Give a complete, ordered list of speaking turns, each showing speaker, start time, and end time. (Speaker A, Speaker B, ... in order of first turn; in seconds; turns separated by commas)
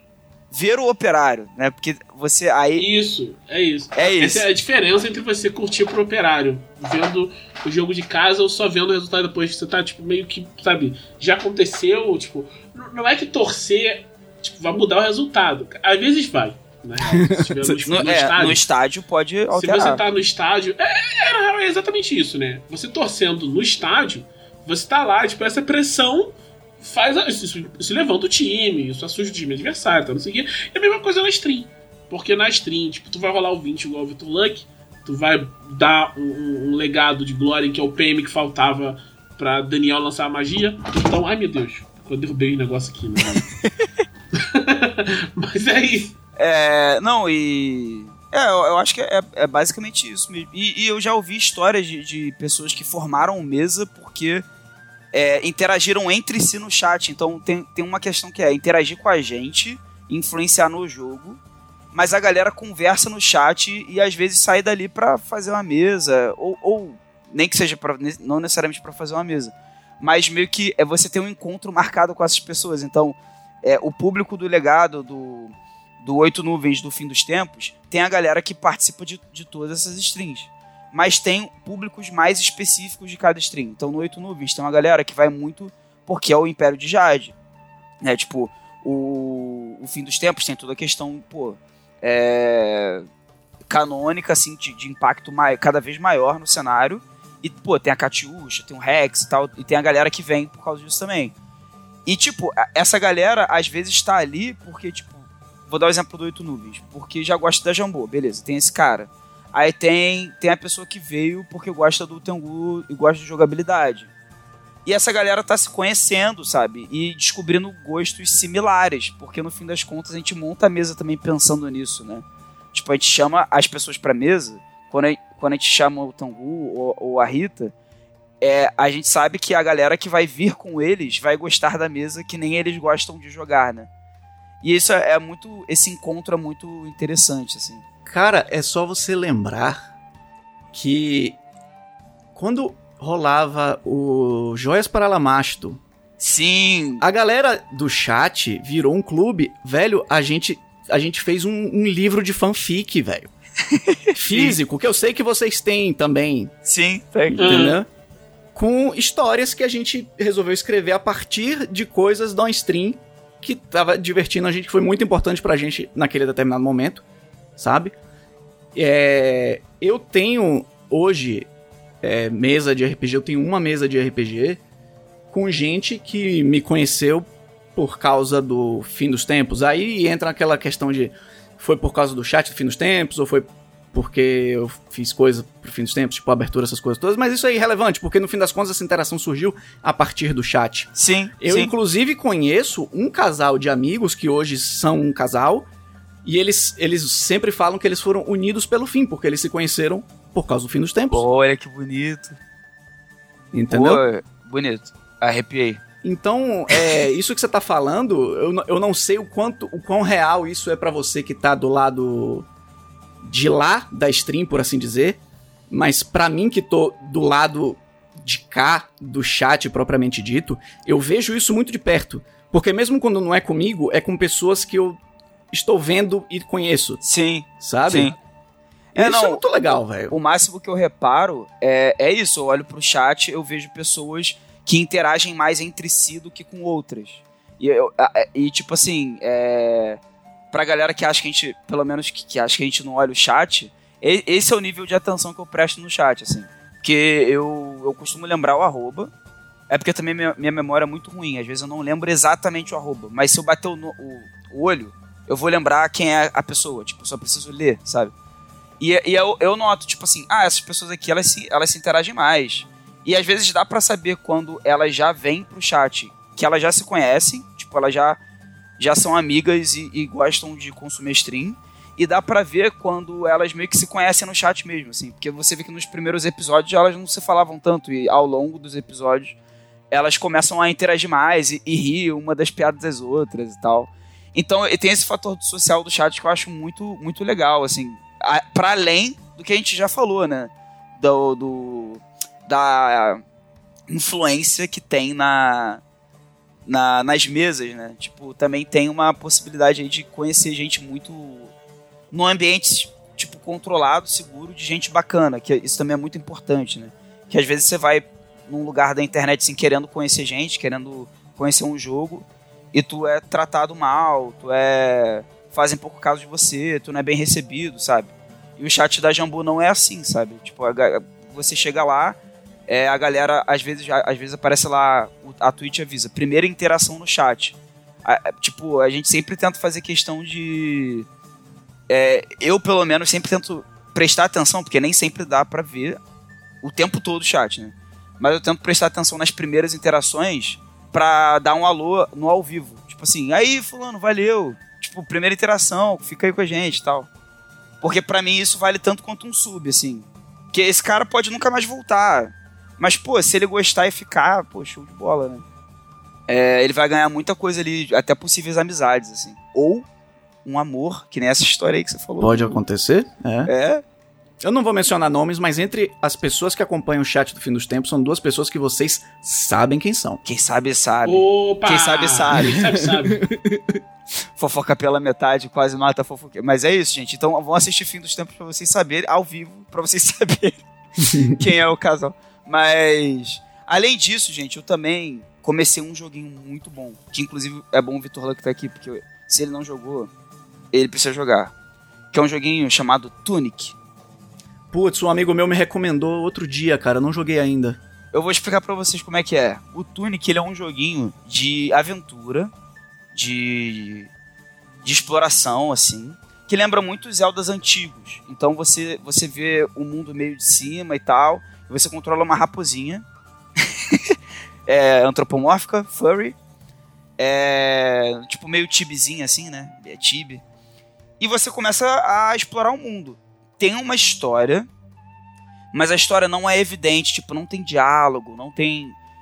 Speaker A: 0.5-2.9, Speaker B: 2.8-18.6, Speaker A: 3.9-4.5, Speaker C: 17.1-17.7, Speaker A: 17.9-20.0, Speaker B: 19.5-43.5, Speaker B: 44.4-46.1, Speaker A: 46.4-54.4, Speaker A: 55.1-61.4, Speaker A: 61.9-87.3, Speaker A: 88.0-93.0, Speaker A: 93.7-101.3, Speaker A: 102.0-114.1, Speaker A: 114.8-127.7, Speaker A: 128.4-133.9, Speaker A: 134.6-137.8, Speaker C: 138.1-139.9, Speaker C: 140.7-141.4, Speaker C: 142.3-145.8, Speaker A: 146.2-147.0, Speaker C: 147.0-153.3, Speaker A: 153.7-154.6, Speaker C: 154.1-156.5, Speaker A: 156.7-157.7, Speaker C: 157.3-157.9, Speaker B: 157.4-157.8, Speaker C: 158.5-167.0, Speaker C: 167.6-167.9, Speaker C: 168.7-171.5, Speaker C: 172.0-174.6, Speaker C: 175.3-190.9, Speaker A: 190.9-191.7, Speaker C: 191.4-195.7, Speaker C: 196.2-201.2, Speaker A: 201.1-202.4, Speaker C: 203.5-204.0, Speaker A: 203.7-205.8, Speaker C: 206.0-212.5, Speaker A: 206.7-207.0, Speaker C: 213.2-225.0, Speaker C: 225.5-227.0, Speaker A: 227.0-228.2, Speaker C: 227.6-228.1, Speaker C: 228.9-230.1, Speaker A: 228.9-229.4, Speaker A: 230.1-240.0, Speaker A: 240.5-249.1, Speaker A: 249.7-258.1, Speaker A: 258.8-268.2, Speaker A: 268.8-279.4, Speaker A: 279.9-293.2, Speaker A: 293.9-295.8, Speaker A: 296.6-301.5, Speaker A: 302.1-331.1, Speaker A: 331.9-336.0, Speaker A: 336.6-347.1, Speaker A: 347.8-355.4, Speaker A: 356.3-359.8, Speaker A: 360.4-362.6, Speaker C: 362.2-363.5, Speaker A: 363.4-363.8, Speaker C: 364.4-370.2, Speaker A: 370.2-372.6, Speaker B: 371.0-373.2, Speaker C: 372.4-373.8, Speaker A: 374.4-380.6, Speaker C: 381.0-381.4, Speaker A: 381.3-390.1, Speaker A: 390.7-391.5, Speaker A: 392.1-393.7, Speaker C: 394.7-397.8, Speaker A: 398.1-402.5, Speaker A: 403.1-404.1, Speaker A: 404.8-413.0, Speaker A: 413.6-414.1, Speaker A: 414.7-416.3, Speaker A: 417.2-420.4, Speaker A: 421.2-424.7, Speaker A: 425.7-428.9